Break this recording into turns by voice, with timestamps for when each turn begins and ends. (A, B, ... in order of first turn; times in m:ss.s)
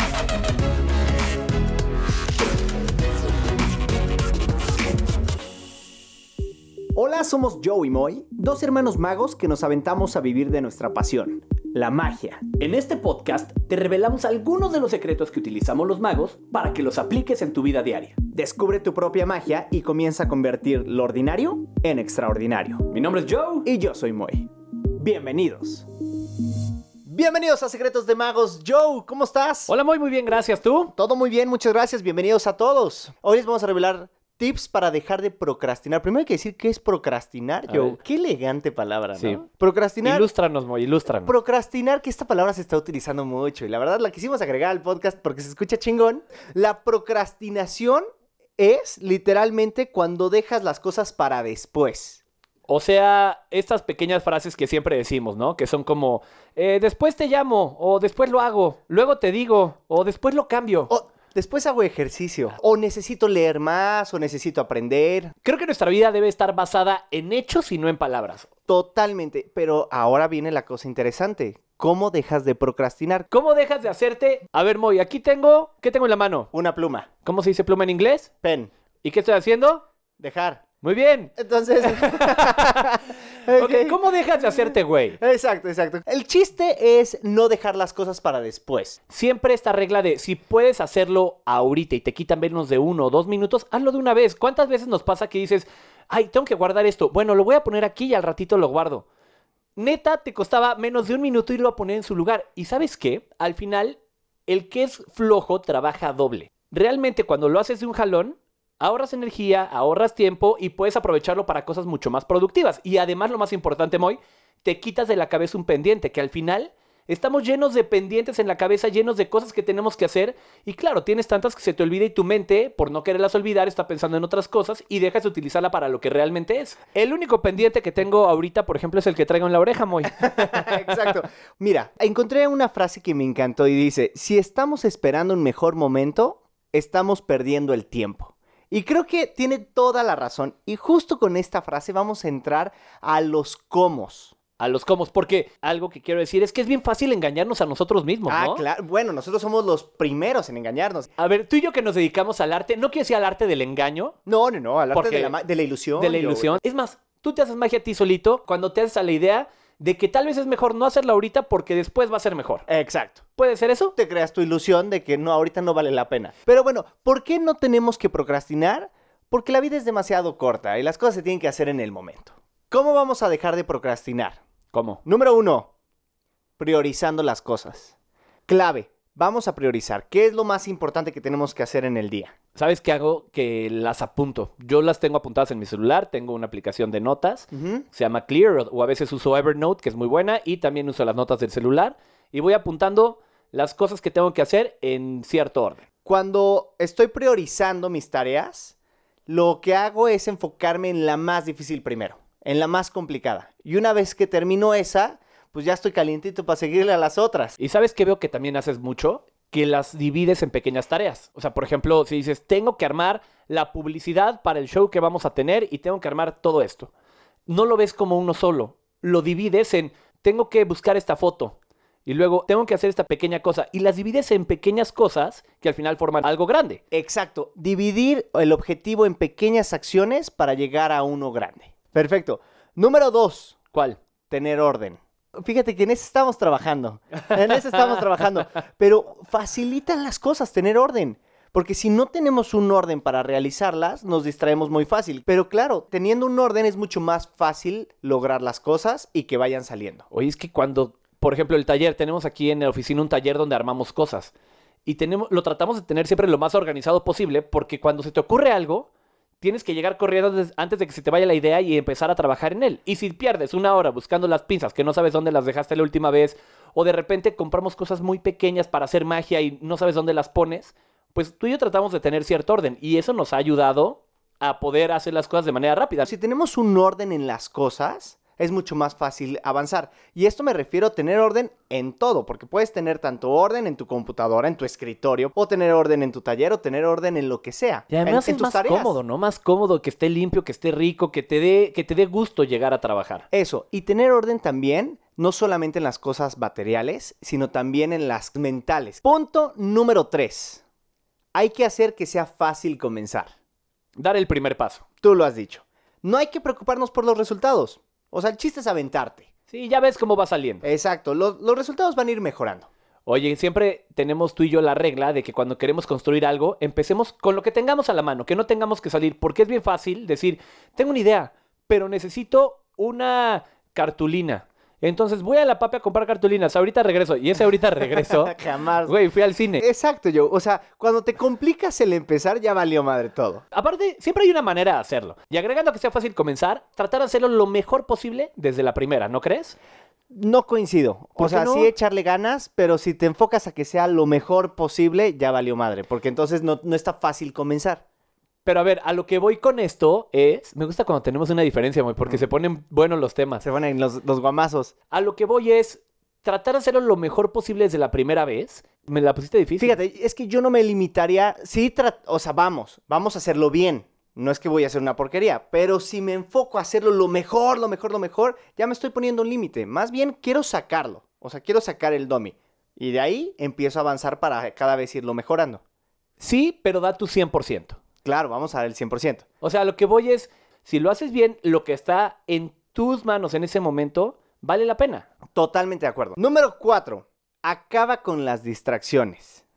0:06.9-0:12.5 A
0:12.6-0:18.2 B
0:18.3-0:22.8 A
0:22.9-0:23.6 B
0:23.6-0:25.8 A
0:27.0-0:29.7 A
0:29.7-0:30.9 B
0:30.9-0:40.3 A
0:37.7-0:38.0 B
0:39.2-0:39.4 B
0:40.0-0:41.3 B
0:41.2-0:48.0 A
0:48.6-0:52.2 A
0:52.7-1:00.9 B
1:00.9-1:05.3 A
1:05.4-1:08.5 B
1:08.7-1:13.3 A
1:13.3-1:16.5 B
1:16.5-1:17.1 A
1:17.2-1:18.3 B
1:18.4-1:18.7 A
1:19.0-1:19.8 B
1:20.2-1:20.6 A
1:20.8-1:22.8 B
1:21.4-1:24.0 A
1:23.4-1:25.2 B
1:25.2-1:29.0 A
1:29.1-1:39.0 B
1:39.8-2:11.0 B
2:10.2-2:24.3 A
2:24.6-2:28.6 B
2:28.3-2:31.1 A
2:31.2-2:34.2 B
2:34.2-2:36.6 A
2:34.9-2:35.3 B
2:36.0-2:42.6 B
2:42.7-2:43.2 A
2:43.4-2:43.9 B
2:44.0-2:54.4 A
2:54.7-2:55.0 B
2:55.0-2:55.7 A
2:56.6-2:57.9 A
2:58.5-3:02.3 A
3:02.6-3:15.8 B
3:07.5-3:07.8 A
3:16.0-3:18.7 A
3:19.3-3:27.6 A
3:27.6-3:36.9 B
3:37.5-3:46.8 B
3:46.9-3:53.6 A
3:53.7-3:54.0 B
3:54.3-4:10.0 A
4:10.1-4:14.3 B
4:14.8-4:18.9 B
4:19.4-4:36.0 B
4:36.0-4:49.0 A
4:47.9-4:53.2 B
4:53.3-5:00.6 A
5:01.3-5:03.3 A
5:04.0-5:04.8 B
5:05.0-5:09.3 A
5:09.5-5:10.6 B
5:10.6-5:12.7 A
5:13.0-5:29.6 B
5:28.0-5:28.9 A
5:29.6-5:33.4 A
5:33.5-5:39.6 B
5:40.1-5:47.8 A
5:41.2-5:41.7 B
5:48.4-5:53.4 B
5:53.4-5:54.7 A
5:54.9-5:59.8 B
5:59.6-6:15.6 A
6:16.2-6:17.8 B
6:18.0-6:19.2 A
6:19.4-6:25.0 B
6:25.3-6:29.4 A